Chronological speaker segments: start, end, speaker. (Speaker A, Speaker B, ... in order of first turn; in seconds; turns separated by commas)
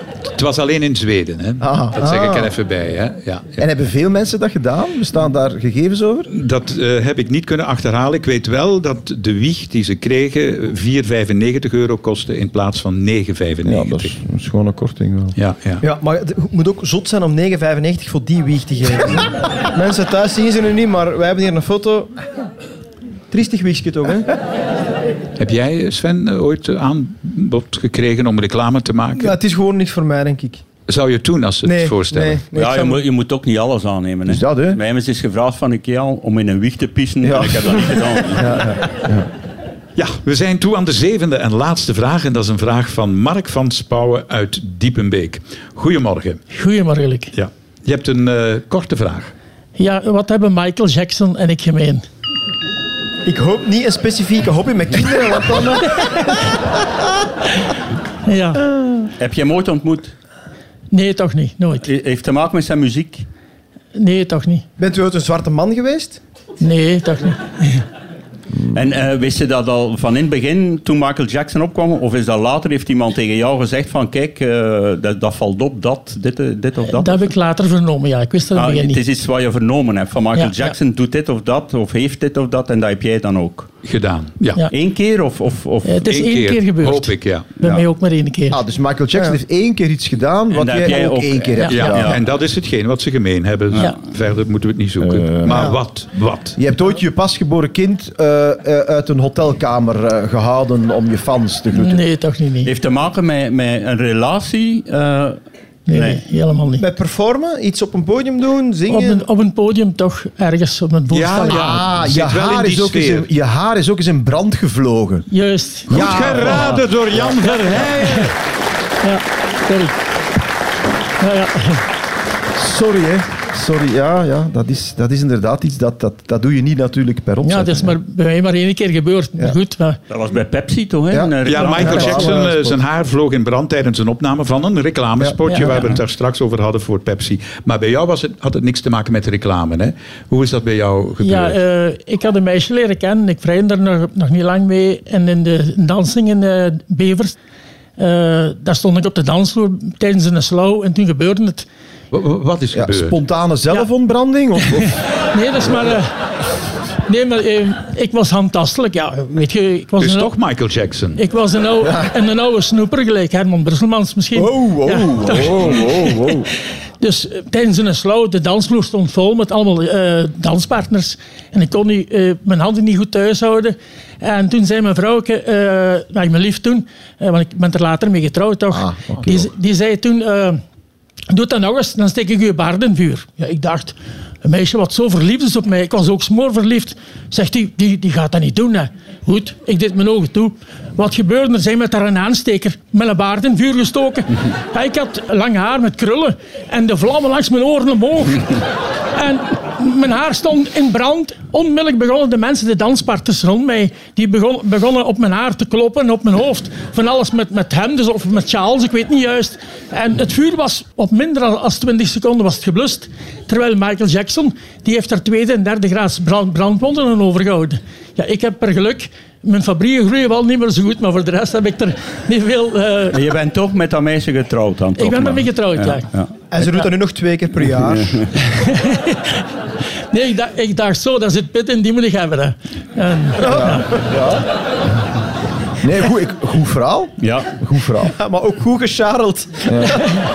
Speaker A: 0.3-3.6, Speaker B: 1.6-1.9, Speaker C: 1.9-2.5, Speaker B: 3.6-6.3, Speaker A: 6.3-14.2, Speaker B: 13.6-15.3, Speaker A: 15.3-15.8, Speaker C: 15.8-22.1, Speaker C: 23.3-24.3, Speaker A: 25.4-29.3, Speaker C: 29.2-30.6, Speaker A: 30.9-32.4, Speaker C: 31.6-33.0, Speaker D: 32.5-38.6, Speaker B: 34.2-34.8, Speaker B: 37.2-39.3, Speaker A: 40.0-46.4, Speaker E: 46.5-47.3, Speaker A: 47.3-49.3, Speaker E: 49.8-52.0, Speaker C: 53.2-56.5, Speaker B: 55.3-55.6, Speaker E: 58.2-59.0, Speaker D: 59.2-60.1, Speaker E: 60.9-61.9, Speaker D: 61.8-63.3, Speaker E: 63.9-64.6, Speaker C: 64.8-66.2, Speaker E: 66.6-67.8, Speaker D: 68.7-77.3, Speaker E: 76.9-79.0, Speaker D: 78.5-83.7, Speaker E: 80.3-80.7, Speaker A: 83.8-84.7, Speaker D: 84.7-86.0, Speaker E: 85.8-88.6, Speaker A: 86.0-87.5, Speaker B: 88.5-92.2, Speaker D: 90.5-92.2, Speaker A: 91.7-96.6, Speaker B: 95.0-95.8, Speaker C: 95.5-95.8, Speaker B: 96.6-102.0, Speaker E: 101.7-102.7, Speaker D: 102.6-106.2, Speaker E: 105.9-106.8, Speaker C: 106.8-109.2, Speaker E: 108.9-111.8, Speaker A: 111.1-113.3, Speaker B: 111.5-115.3, Speaker E: 115.3-116.8, Speaker B: 115.9-117.9, Speaker A: 115.9-118.3, Speaker E: 119.0-119.9, Speaker E: 121.2-121.8, Speaker B: 122.5-128.0, Speaker E: 127.4-130.0, Speaker D: 130.1-132.4, Speaker B: 131.1-132.8, Speaker A: 131.4-141.6, Speaker B: 135.2-135.8, Speaker E: 135.5-135.9, Speaker E: 141.2-147.3, Speaker E: 148.0-151.7, Speaker A: 152.1-153.2, Speaker B: 152.7-155.0, Speaker E: 154.8-156.1, Speaker E: 157.1-160.3, Speaker A: 160.0-161.2, Speaker E: 161.2-166.5, Speaker B: 161.8-162.1, Speaker B: 164.3-166.5, Speaker E: 167.0-180.6, Speaker B: 178.7-179.5, Speaker E: 181.3-198.6, Speaker E: 199.1-223.2, Speaker D: 223.1-226.3, Speaker E: 225.0-226.1, Speaker C: 226.5-228.2, Speaker D: 227.8-228.3, Speaker E: 228.6-229.4, Speaker E: 230.1-233.9, Speaker B: 233.4-234.5, Speaker B: 235.8-238.1, Speaker D: 237.2-237.5, Speaker C: 238.0-239.8, Speaker B: 239.6-240.0